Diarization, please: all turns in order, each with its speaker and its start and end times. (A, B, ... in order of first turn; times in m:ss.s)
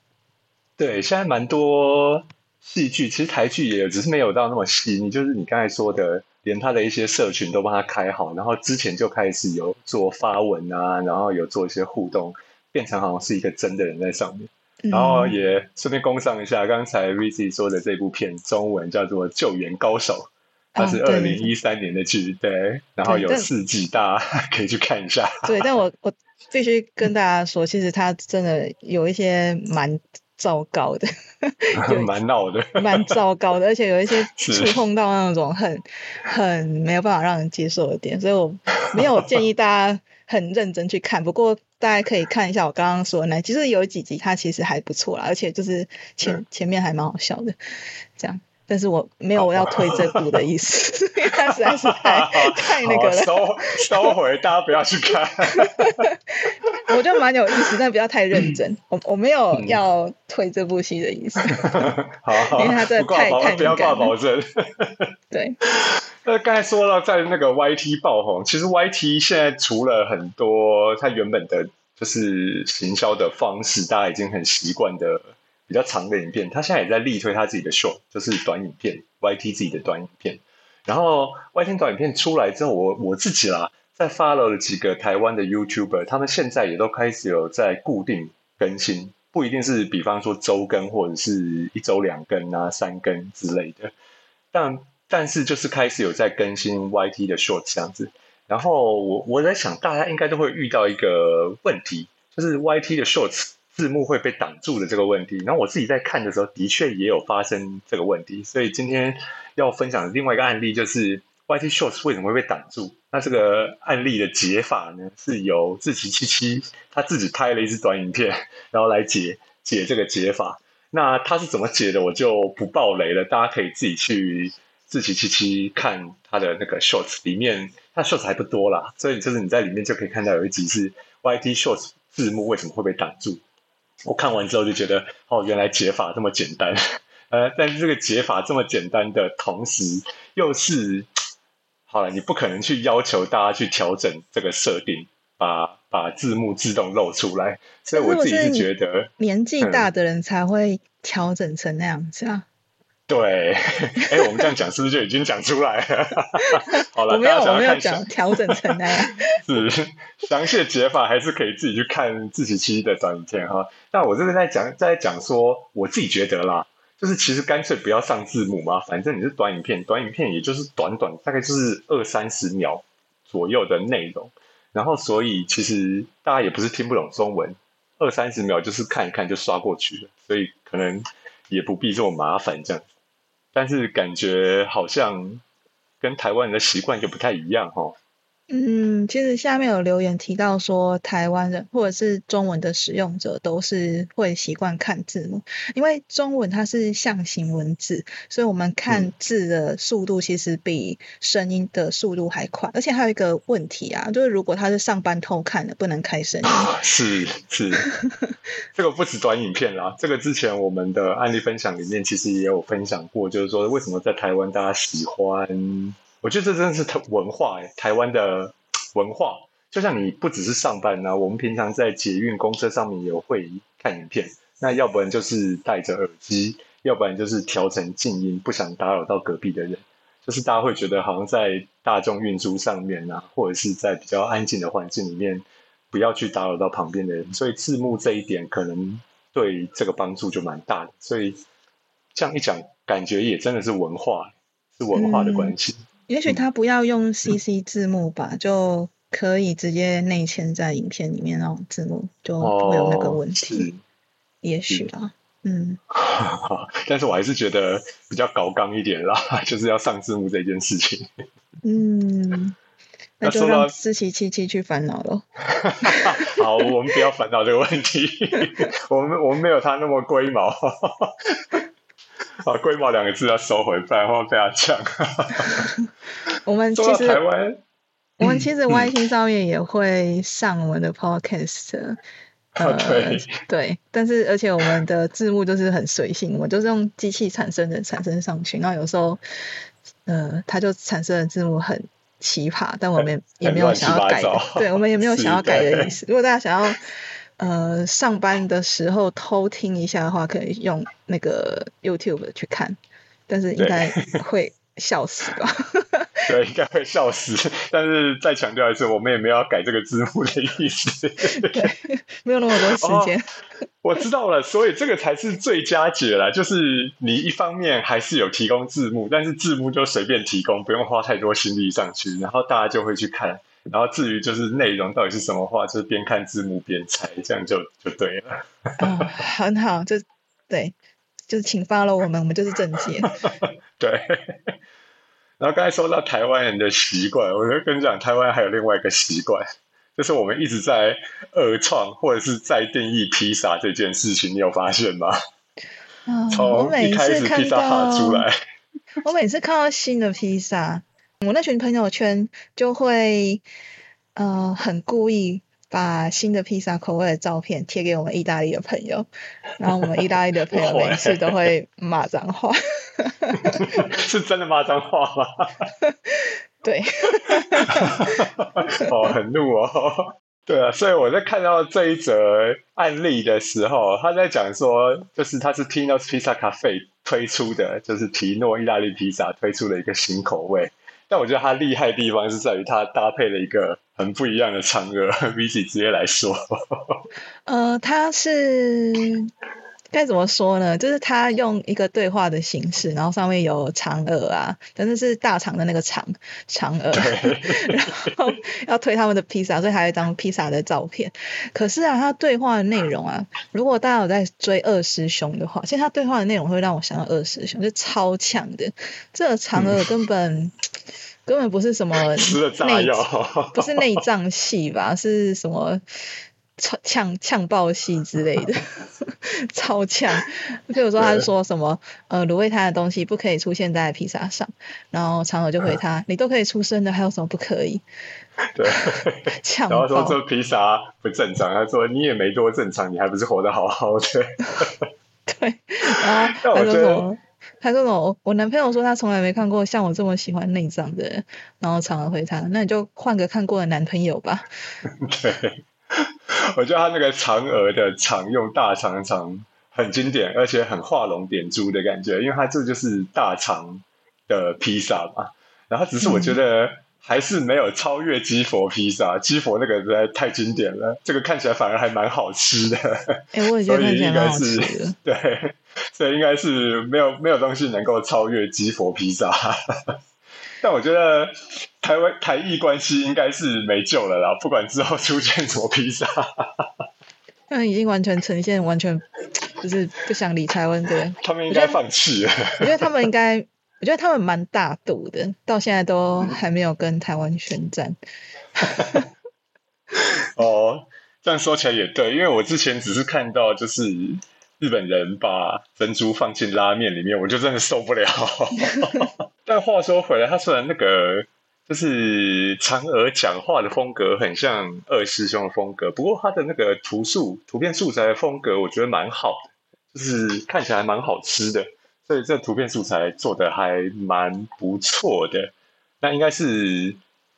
0:00.8-0:25.6 A
0:14.8-0:15.4 B
0:20.8-0:21.5 B
0:23.0-0:23.5 B
0:25.4-0:32.1 B
0:31.8-0:33.1 A
0:32.8-0:47.5 B
0:34.3-0:34.8 A
0:48.2-0:54.1 B
0:49.4-0:50.3 A
0:51.5-0:56.0 A
0:55.5-1:04.1 B
0:59.5-0:59.8 A
1:01.5-1:05.1 A
1:05.3-1:05.6 B
1:05.7-1:33.9 A
1:34.5-2:13.4 A
2:14.0-2:21.1 A
2:21.9-2:29.1 A
2:27.9-2:32.5 B
2:29.6-2:29.9 A
2:33.1-2:38.8 A
2:34.2-2:34.4 B
2:36.4-2:39.4 B
2:39.3-3:02.8 A
3:03.5-3:05.4 A
3:06.0-3:08.0 A
3:08.5-3:26.7 B
3:26.4-3:27.8 A
3:28.7-4:01.4 A
4:02.1-4:06.4 A
4:04.9-4:05.6 B
4:06.1-4:13.7 B
4:12.4-4:13.8 A
4:14.4-4:15.8 B
4:15.9-4:21.1 A
4:21.6-4:22.6 B
4:23.2-4:25.2 B
4:23.2-4:23.7 A
4:25.5-4:31.6 A
4:25.8-4:26.4 B
4:32.4-4:35.6 A
4:36.4-4:37.2 B
4:36.7-4:37.6 A
4:38.2-4:42.0 B
4:38.2-4:38.9 A
4:42.6-4:43.3 A
4:42.6-4:49.2 B
4:50.0-4:56.8 B
4:53.0-4:55.9 A
4:57.4-5:02.8 B
5:03.3-5:06.1 B
5:03.6-5:04.2 A
5:06.3-5:11.7 A
5:11.2-5:13.2 B
5:12.8-5:13.1 A
5:13.8-5:28.4 A
5:28.8-5:30.7 B
5:31.3-5:33.1 B
5:33.2-5:34.5 A
5:35.4-5:39.4 A
5:40.0-5:45.2 A
5:46.0-5:48.3 B
5:46.3-5:48.4 A
5:49.0-5:53.4 B
5:54.2-5:59.1 B
5:59.6-6:03.8 B
6:00.5-6:01.4 A
6:03.4-6:05.7 A
6:06.6-6:08.2 B
6:07.3-6:27.0 A
6:27.5-6:29.3 B
6:29.9-6:50.5 B
6:36.9-6:38.2 A
6:49.5-6:49.8 A
6:51.2-6:55.8 B
6:52.1-6:54.0 A
6:56.6-6:58.6 B
6:59.5-7:07.8 B
7:01.0-7:01.2 A
7:08.5-7:14.9 A
7:09.4-7:10.2 B
7:15.3-7:24.4 B
7:15.9-7:17.0 A
7:24.8-7:49.9 A
7:36.0-7:36.4 B
7:43.3-7:45.0 B
7:50.6-7:56.7 A
7:57.5-8:01.8 B
8:01.2-8:02.7 A
8:02.6-8:08.0 B
8:08.5-8:09.0 B
8:10.0-8:37.0 A